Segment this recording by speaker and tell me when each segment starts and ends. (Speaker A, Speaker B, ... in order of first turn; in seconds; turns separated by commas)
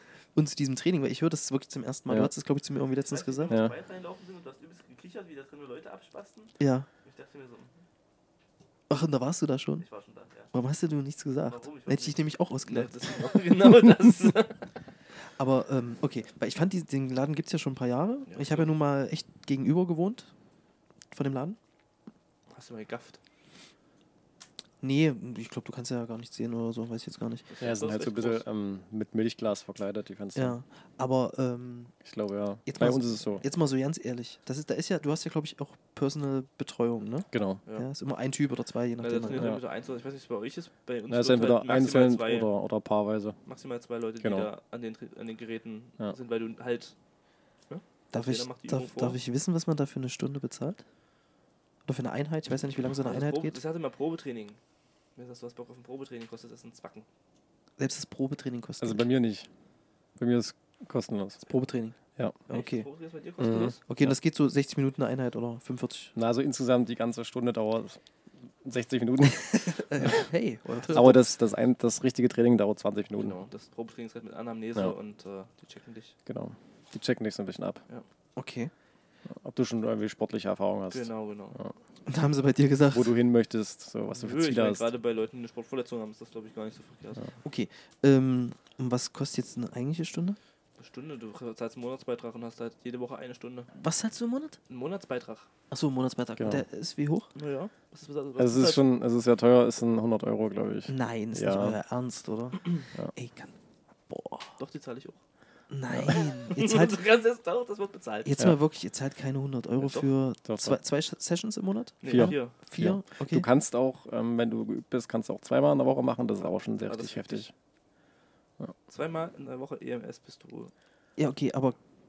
Speaker A: 0.3-3.5, Speaker B: 3.1-7.8, Speaker C: 3.5-3.7, Speaker A: 6.6-6.9, Speaker A: 8.9-9.8, Speaker B: 9.8-10.5, Speaker A: 10.5-13.0, Speaker B: 11.5-14.7, Speaker A: 15.4-20.3, Speaker B: 18.3-18.7, Speaker A: 21.1-21.6, Speaker B: 22.5-23.2, Speaker A: 24.8-27.5, Speaker B: 27.5-28.4, Speaker C: 27.6-30.6, Speaker A: 30.4-31.9, Speaker C: 32.0-33.4, Speaker A: 32.7-39.5, Speaker C: 37.3-37.6, Speaker B: 39.0-42.5, Speaker C: 39.4-39.6, Speaker C: 41.1-43.4, Speaker B: 43.5-47.0, Speaker C: 44.2-44.5, Speaker B: 47.7-49.2, Speaker A: 48.1-50.8, Speaker A: 51.9-53.6, Speaker B: 53.0-54.6, Speaker B: 55.2-57.1, Speaker A: 57.8-59.1, Speaker C: 58.8-59.5, Speaker C: 60.2-61.5, Speaker A: 61.4-62.0, Speaker A: 62.5-62.9, Speaker B: 62.5-63.8, Speaker C: 63.4-64.1, Speaker A: 63.9-66.1, Speaker C: 66.2-68.0, Speaker C: 68.6-70.2, Speaker A: 69.5-71.4, Speaker C: 70.9-73.4, Speaker B: 73.2-76.2, Speaker C: 76.3-77.8, Speaker A: 78.4-78.7, Speaker C: 79.3-81.7, Speaker B: 80.9-81.6, Speaker A: 82.1-83.1, Speaker C: 82.9-84.9, Speaker B: 84.2-87.3, Speaker A: 87.4-90.4, Speaker B: 90.8-93.7, Speaker A: 93.7-94.6, Speaker B: 94.7-95.5, Speaker A: 95.7-97.3, Speaker C: 96.4-96.6, Speaker B: 97.3-98.8, Speaker C: 98.4-101.8, Speaker A: 100.9-103.5, Speaker A: 104.1-104.6, Speaker B: 104.6-105.2, Speaker A: 105.7-107.0, Speaker B: 106.1-108.5, Speaker A: 108.2-113.5, Speaker B: 109.8-110.1, Speaker C: 110.5-110.8, Speaker B: 112.0-112.5, Speaker C: 112.0-117.5, Speaker B: 116.8-117.5, Speaker B: 118.9-120.7, Speaker A: 121.2-121.8